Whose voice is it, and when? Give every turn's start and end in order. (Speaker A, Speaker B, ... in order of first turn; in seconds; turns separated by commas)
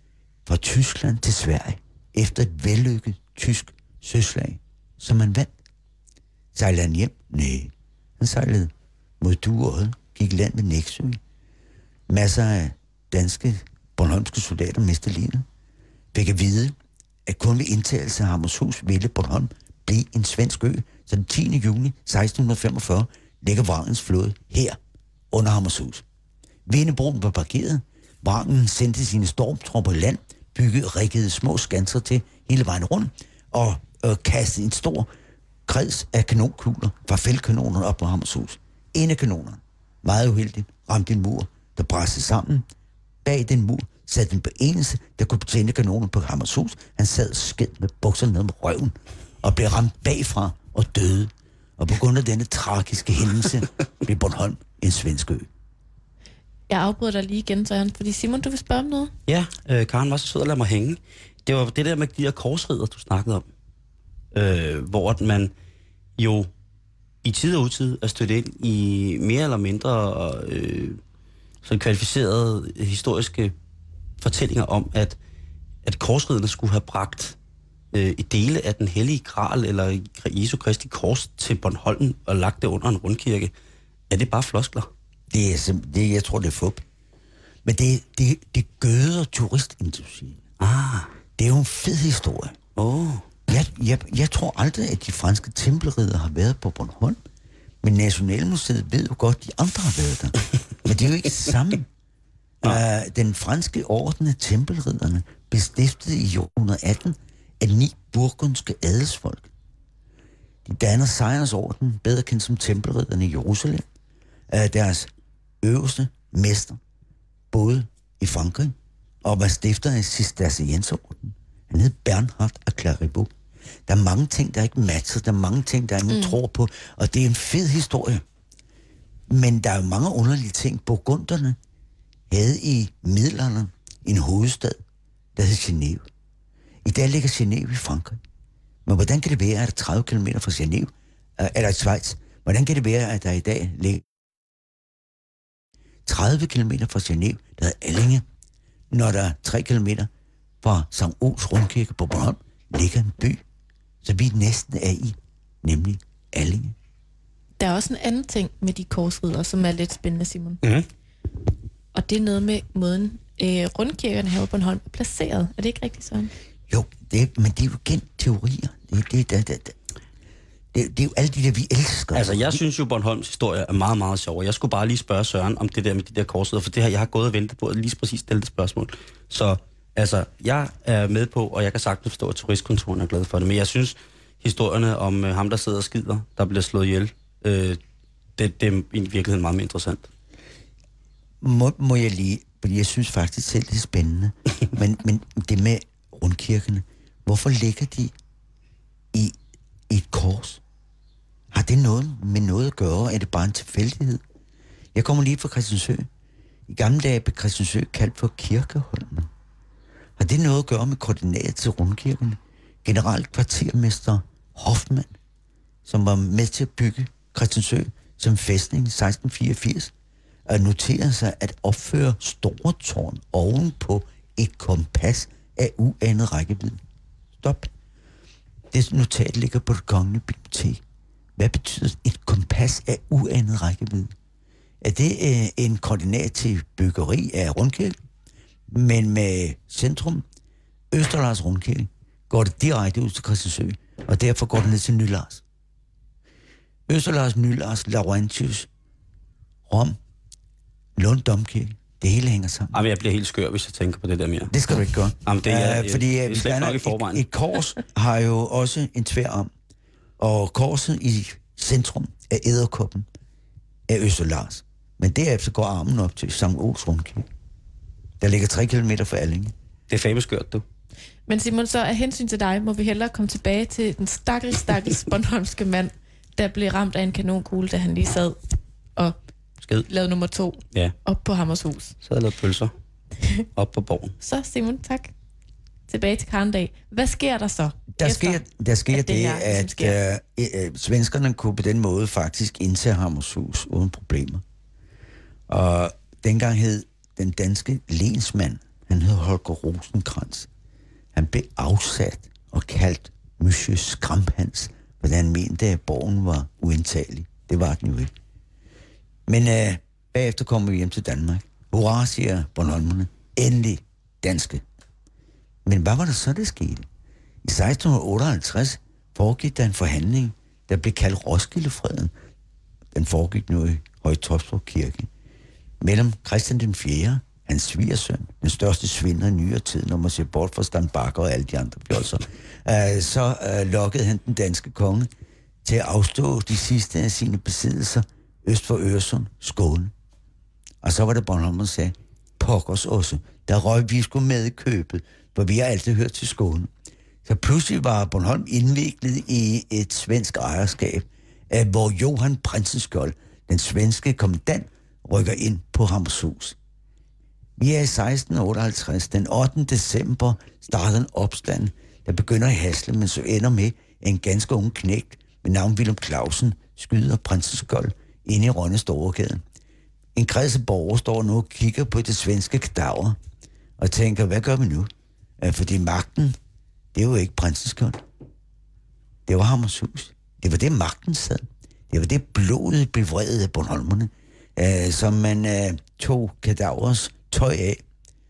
Speaker A: 0.5-5.5, Speaker A: 6.5-11.2, Speaker A: 12.1-15.5, Speaker A: 16.1-24.8, Speaker A: 25.3-26.0, Speaker A: 26.7-35.1, Speaker A: 35.7-42.7, Speaker A: 43.2-55.5, Speaker B: 56.7-59.1, Speaker C: 59.3-63.5, Speaker C: 64.3-65.5, Speaker C: 66.2-66.5, Speaker C: 67.2-71.0, Speaker C: 71.6-73.5, Speaker C: 74.2-75.2, Speaker C: 75.8-77.4, Speaker C: 77.9-83.5, Speaker C: 84.1-84.9, Speaker A: 85.3-86.8, Speaker A: 87.7-90.4, Speaker C: 90.6-91.1, Speaker A: 91.4-92.6, Speaker C: 92.8-93.3, Speaker A: 93.5-97.2, Speaker A: 97.8-101.9, Speaker A: 102.6-109.5, Speaker A: 110.7-113.8, Speaker A: 114.5-115.1, Speaker A: 115.6-116.8, Speaker A: 117.5-123.3, Speaker A: 123.9-128.2, Speaker B: 126.1-126.4, Speaker A: 129.3-131.6, Speaker A: 132.3-134.8, Speaker A: 135.4-136.0, Speaker A: 136.8-138.2, Speaker A: 138.9-144.1, Speaker A: 146.1-148.2, Speaker A: 148.9-150.1, Speaker A: 150.6-153.4, Speaker A: 154.0-156.8, Speaker B: 157.6-160.6, Speaker B: 161.9-166.3, Speaker A: 166.7-169.8, Speaker A: 170.7-172.6, Speaker C: 172.1-187.8, Speaker C: 188.4-190.1, Speaker A: 191.4-198.1, Speaker A: 199.9-200.6, Speaker A: 201.5-204.2, Speaker A: 204.9-206.1, Speaker A: 206.7-209.3, Speaker A: 210.2-215.1, Speaker A: 215.9-219.9, Speaker A: 220.5-226.8, Speaker A: 227.4-227.7, Speaker A: 228.7-230.8, Speaker A: 231.4-234.1, Speaker A: 234.8-237.9, Speaker A: 238.7-240.2, Speaker A: 240.9-245.4, Speaker A: 246.9-248.7, Speaker A: 249.7-250.0, Speaker A: 251.0-252.8, Speaker C: 252.7-254.6, Speaker A: 254.5-259.5, Speaker C: 255.2-257.2, Speaker A: 260.2-263.1, Speaker A: 263.9-267.3, Speaker A: 268.2-269.5, Speaker C: 269.9-270.6, Speaker B: 271.3-278.4, Speaker C: 279.6-279.9, Speaker B: 279.9-281.9, Speaker C: 282.0-282.7, Speaker C: 283.6-284.1, Speaker B: 284.2-285.1, Speaker B: 285.9-290.0, Speaker A: 287.9-294.4, Speaker A: 295.5-300.5, Speaker A: 301.1-308.1, Speaker A: 309.3-314.6, Speaker A: 315.7-316.9, Speaker A: 317.4-322.1, Speaker A: 322.9-325.1, Speaker A: 325.8-335.1, Speaker A: 335.6-339.9, Speaker A: 340.8-346.7, Speaker A: 347.2-356.6, Speaker A: 357.6-369.4, Speaker A: 370.1-373.2, Speaker A: 373.8-374.9, Speaker A: 375.4-376.4, Speaker A: 376.9-378.0, Speaker A: 379.3-387.8